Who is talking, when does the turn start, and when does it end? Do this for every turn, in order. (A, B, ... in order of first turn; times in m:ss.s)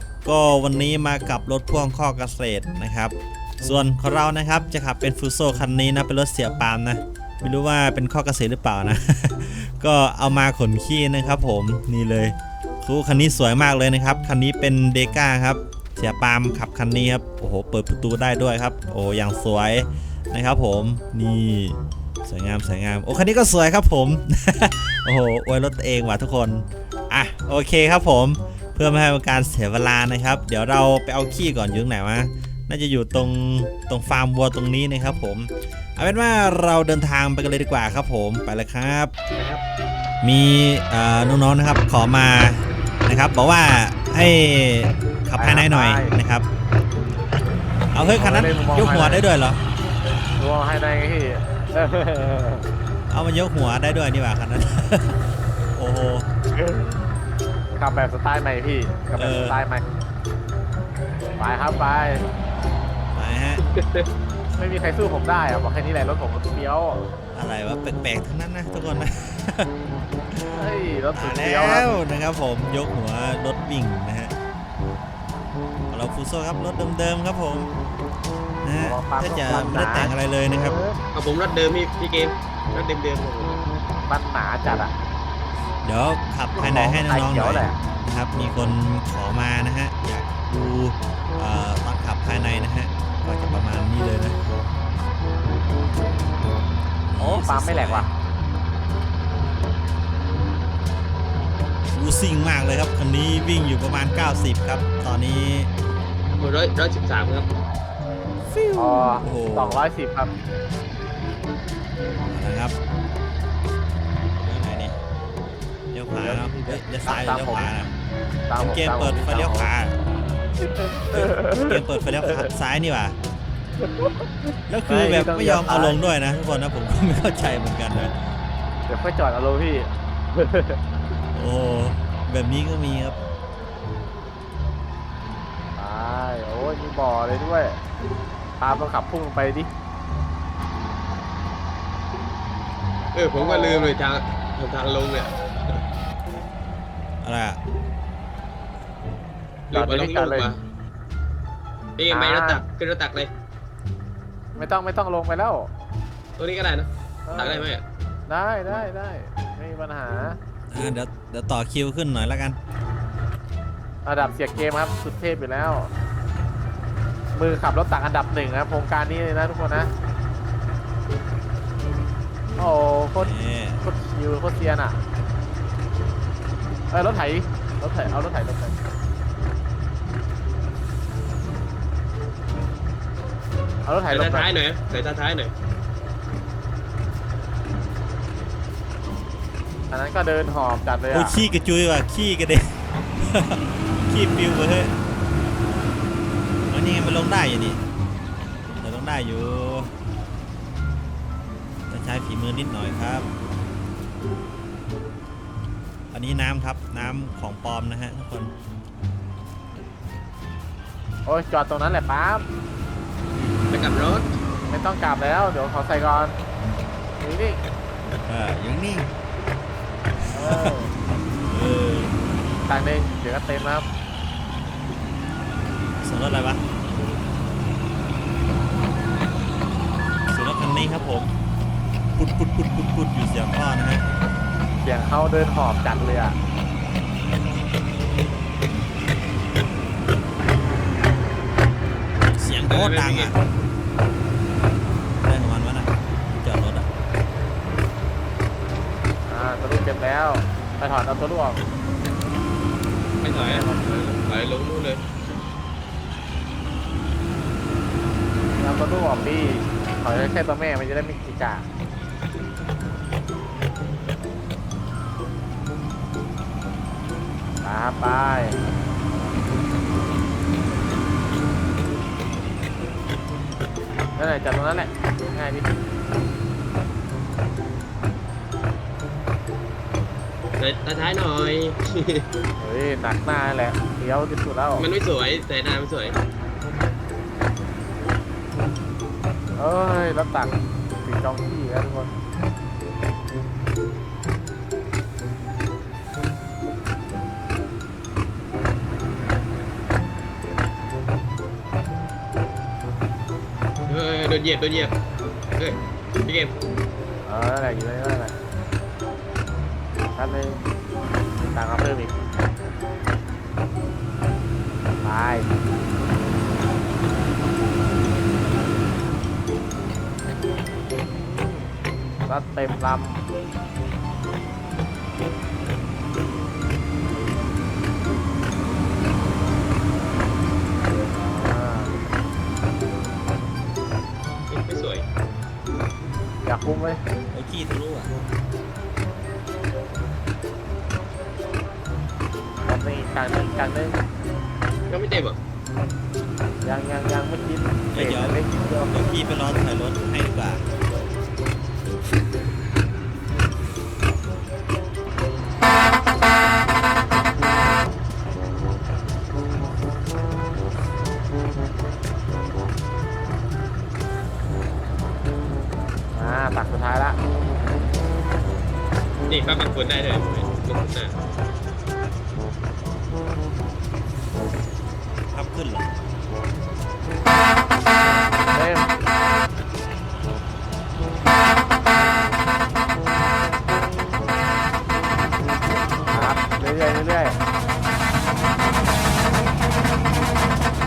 0:00.2-0:39.1 A
0:39.3-0:39.6 B
0:40.2-0:46.5 A
0:45.4-0:46.2 C
0:47.9-0:49.6 A
0:48.2-0:49.2 C
0:50.4-0:52.7 C
0:53.1-0:56.3 A
0:56.5-0:57.0 C
0:57.8-0:59.9 C
0:59.2-0:59.6 A
1:01.4-1:02.3 C
1:03.1-1:03.6 A
1:03.8-1:04.1 B
1:04.6-1:07.0 C
1:07.3-1:09.7 A
1:10.5-1:12.0 C
1:11.2-1:14.3 A
1:15.9-1:17.7 A
1:18.6-1:20.8 A
1:18.8-1:21.0 C
1:21.2-1:23.6 B
1:24.0-1:24.9 C
1:25.8-1:34.4 A
1:26.6-1:27.8 C
1:37.1-1:38.1 A
1:37.2-1:38.1 C
1:41.9-1:45.7 A
1:46.4-1:47.5 B
1:48.5-1:49.8 A
1:48.8-1:50.4 C
1:52.3-1:52.8 A
1:54.4-1:55.0 A
1:55.9-1:57.9 A
1:56.2-1:57.8 C
1:58.5-1:59.7 C
1:58.6-1:59.9 A
2:00.6-2:02.5 C
2:01.1-2:03.2 A
2:03.8-2:06.0 C
2:04.7-2:08.1 A
2:08.9-2:10.8 C
2:11.3-2:13.2 A
2:15.8-2:17.8 C
2:18.6-2:19.7 C
2:23.1-2:25.8 B
2:23.4-2:24.0 C
2:27.2-2:27.6 A
2:29.7-2:30.6 B
2:29.7-2:30.5 C
2:32.0-2:33.3 B
2:32.1-2:32.6 C
2:34.6-2:35.7 C
2:36.4-2:37.8 B
2:37.3-2:37.7 C
2:38.3-2:40.4 C
2:40.7-2:42.6 A
2:44.0-2:45.9 C
2:47.4-2:49.9 C
2:52.6-2:53.3 C
2:53.2-2:53.8 A
2:53.8-2:55.0 C
2:56.9-2:58.8 C
3:03.8-3:04.5 C
3:04.1-3:05.5 B
3:09.9-3:11.4 C
3:11.1-3:14.9 A
3:16.7-3:17.8 A
3:18.8-3:19.9 A
3:21.9-3:23.3 A
3:26.1-3:28.5 A
3:31.2-3:32.5 C
3:33.7-3:34.3 B
3:34.7-3:36.4 C
3:37.2-3:37.6 C
3:38.3-3:39.1 A
3:40.3-3:40.9 C
3:40.4-3:40.7 A
3:41.5-3:42.1 A
3:42.7-3:43.9 C
3:46.0-3:46.6 A
3:50.3-3:51.3 A
3:52.2-3:54.0 A
3:54.8-3:56.4 C
4:02.4-4:03.4 A
4:02.7-4:03.3 B
4:05.2-4:06.9 A
4:09.3-4:11.7 C
4:13.2-4:15.0 B
4:13.3-4:13.9 C
4:18.6-4:21.7 C
4:27.6-4:28.6 C
4:34.2-4:35.8 C
4:40.6-4:42.3 B
4:42.6-4:44.9 C
4:44.8-4:46.2 B
4:49.6-4:52.2 C
5:03.9-5:04.9 B
5:05.6-5:06.5 B
5:07.3-5:08.4 C
5:10.2-5:10.6 C
5:11.5-5:12.2 C
5:15.0-5:15.5 C
5:22.3-5:23.2 C
5:31.2-5:32.0 C
5:34.5-5:35.0 B
5:36.4-5:37.0 C
5:37.3-5:38.1 A
5:42.7-5:44.0 C
5:44.9-5:45.4 B
5:46.6-5:48.9 C
5:47.9-5:50.6 A
6:06.1-6:07.2 C
6:09.3-6:11.1 B
6:15.3-6:15.9 A
6:18.5-6:19.0 C
6:26.1-6:27.4 C